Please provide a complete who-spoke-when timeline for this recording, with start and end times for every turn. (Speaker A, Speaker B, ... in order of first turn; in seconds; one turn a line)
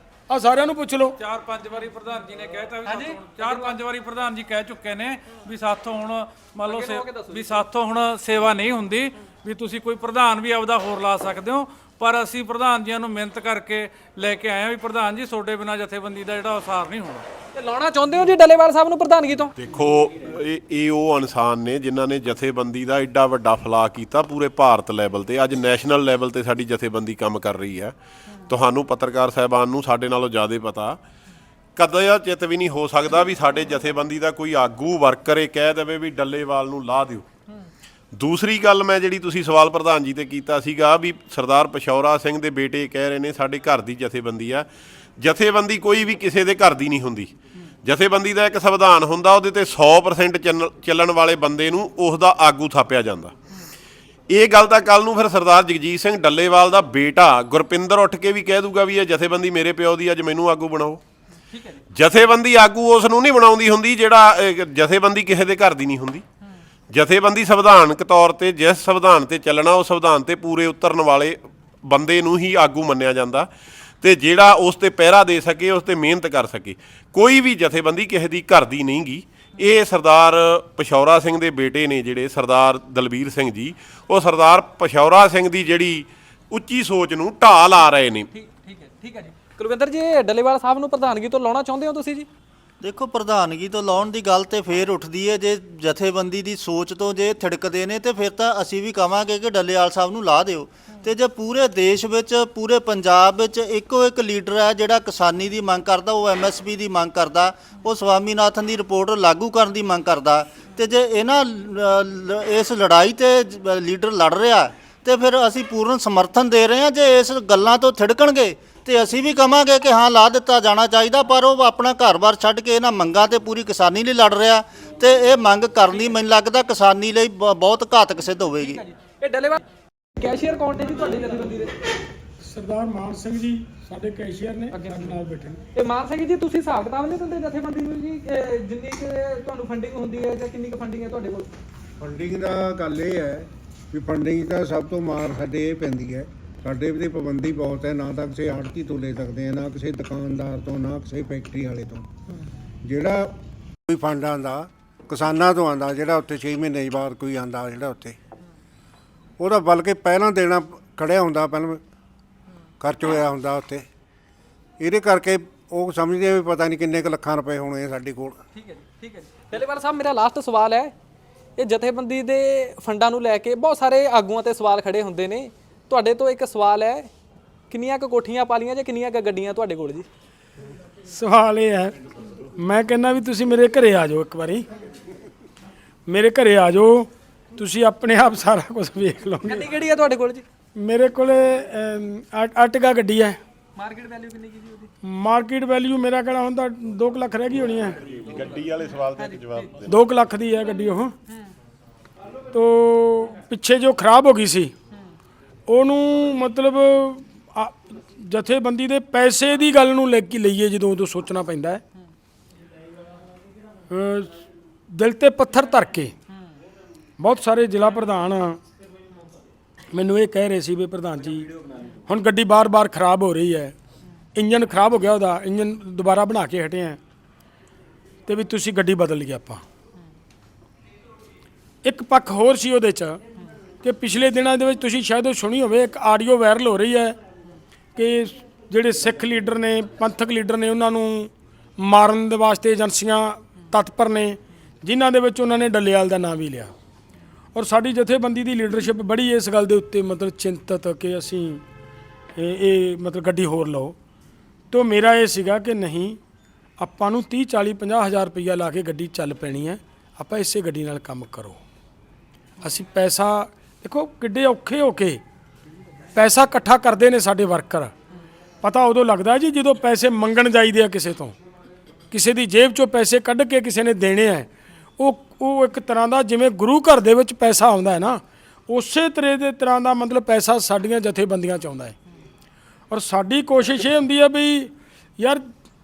Speaker A: 0.3-1.2
Speaker B: 1.2-17.2
Speaker C: 2.9-3.7
Speaker C: 6.7-7.6
Speaker C: 17.5-19.5
Speaker D: 19.6-27.9
Speaker D: 28.5-31.0
Speaker D: 31.8-37.2
Speaker D: 38.1-44.7
Speaker D: 45.2-47.3
Speaker D: 47.8-53.3
Speaker D: 54.3-61.0
Speaker C: 61.5-61.8
Speaker D: 61.9-66.2
Speaker D: 66.9-73.5
Speaker D: 74.0-88.3
Speaker C: 88.3-92.3
Speaker E: 92.8-128.8
Speaker C: 128.6-129.6
Speaker C: 130.2-131.7
Speaker A: 132.4-135.6
Speaker C: 134.8-135.1
Speaker C: 135.8-141.5
Speaker F: 142.0-152.1
Speaker F: 152.8-153.4
Speaker F: 153.9-158.2
Speaker F: 159.4-161.8
Speaker F: 162.8-163.9
Speaker F: 164.8-168.4
Speaker C: 168.5-170.9
Speaker C: 171.6-177.1
Speaker C: 177.7-180.1
Speaker A: 181.1-181.9
Speaker A: 182.6-184.7
Speaker A: 186.1-189.7
Speaker C: 189.4-190.4
Speaker A: 190.8-193.4
Speaker C: 193.8-194.9
Speaker A: 195.0-198.0
Speaker D: 198.2-199.7
Speaker C: 199.1-199.7
Speaker A: 199.9-201.1
Speaker A: 202.5-204.7
Speaker A: 205.7-211.8
Speaker A: 213.9-214.3
Speaker A: 214.9-216.1
Speaker A: 217.2-218.6
Speaker A: 219.9-221.5
Speaker A: 222.1-223.8
Speaker A: 224.3-227.0
Speaker A: 228.3-229.6
Speaker A: 231.8-233.2
Speaker A: 233.8-237.2
Speaker A: 238.0-246.7
Speaker A: 247.5-251.6
Speaker A: 252.4-253.9
Speaker A: 254.7-256.2
Speaker A: 256.8-261.6
Speaker A: 262.6-265.2
Speaker A: 266.1-267.9
Speaker A: 268.6-271.4
Speaker A: 272.1-281.9
Speaker A: 282.9-285.5